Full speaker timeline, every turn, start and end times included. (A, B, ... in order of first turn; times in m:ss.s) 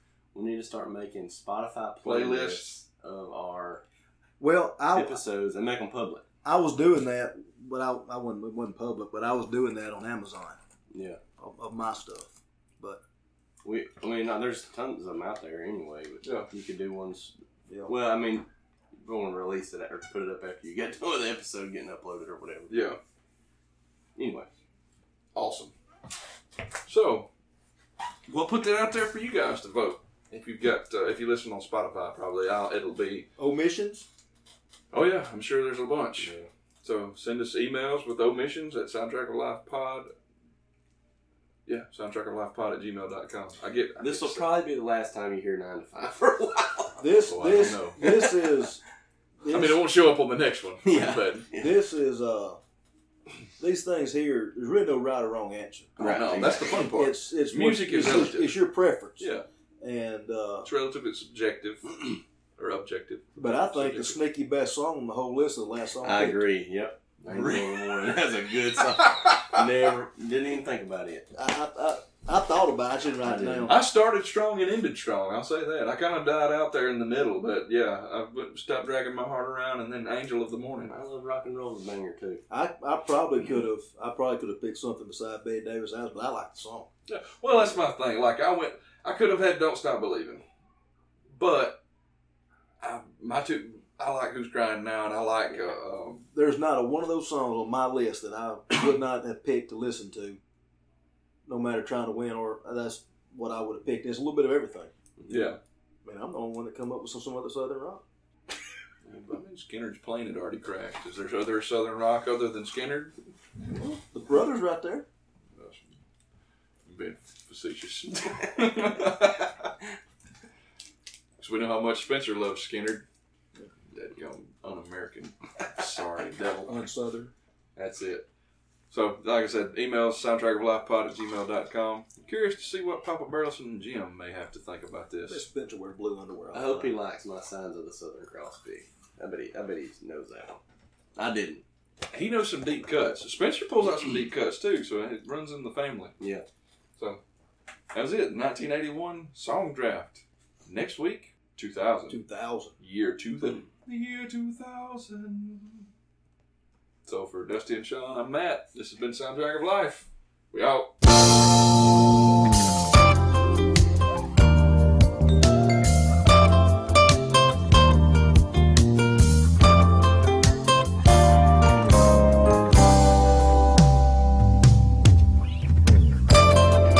0:00.3-0:03.8 A
0:02.0-0:02.8 B
0:04.4-0:05.2 C
0:04.9-0:06.2 A
0:06.4-0:10.6 C
0:10.9-0:11.2 A
0:11.4-0:13.0 C
0:13.6-0:17.3 A
0:16.2-0:16.5 B
0:17.9-0:22.7 A
0:22.7-0:23.0 B
0:24.2-0:24.5 A
0:25.3-0:25.7 B
0:26.9-0:27.3 B
0:28.3-0:33.3 B
0:33.4-0:34.1 C
0:34.9-0:40.1 B
0:36.2-0:36.5 A
0:41.7-0:44.5 B
0:44.0-0:47.0 A
0:47.0-0:48.8 C
0:47.3-0:48.0 B
0:48.0-0:48.6 A
0:49.4-0:49.8 C
0:49.5-0:51.5 B
0:50.8-0:51.7 A
0:51.5-0:52.6 C
0:53.6-0:56.0 C
0:56.0-0:56.8 A
0:56.0-0:58.6 B
0:56.7-0:59.3 C
0:59.2-0:59.4 B
0:59.8-1:00.7 C
1:00.6-1:04.2 B
1:03.4-1:06.4 C
1:06.0-1:11.3 A
1:07.2-1:07.9 B
1:09.0-1:09.6 B
1:11.3-1:13.8 C
1:13.2-1:13.7 A
1:13.7-1:21.0 B
1:20.9-1:22.4 A
1:22.5-1:26.9 C
1:27.1-1:30.4 B
1:31.3-1:31.8 B
1:32.8-1:36.2 B
1:36.3-1:40.4 C
1:41.5-1:44.9 C
1:45.2-1:45.4 A
1:45.3-1:45.6 B
1:46.0-1:48.0 C
1:49.0-1:53.1 B
1:53.8-1:55.1 C
1:55.6-1:56.0 B
1:56.9-1:59.7 B
2:01.4-2:03.1 B
2:03.9-2:06.7 B
2:06.7-2:07.3 C
2:07.8-2:08.2 B
2:08.9-2:15.4 B
2:15.3-2:17.0 C
2:16.5-2:20.6 A
2:21.2-2:21.6 A
2:22.1-2:26.2 B
2:26.2-2:26.5 A
2:27.9-2:32.2 B
2:32.1-2:32.8 C
2:32.8-2:35.9 B
2:37.0-2:40.9 B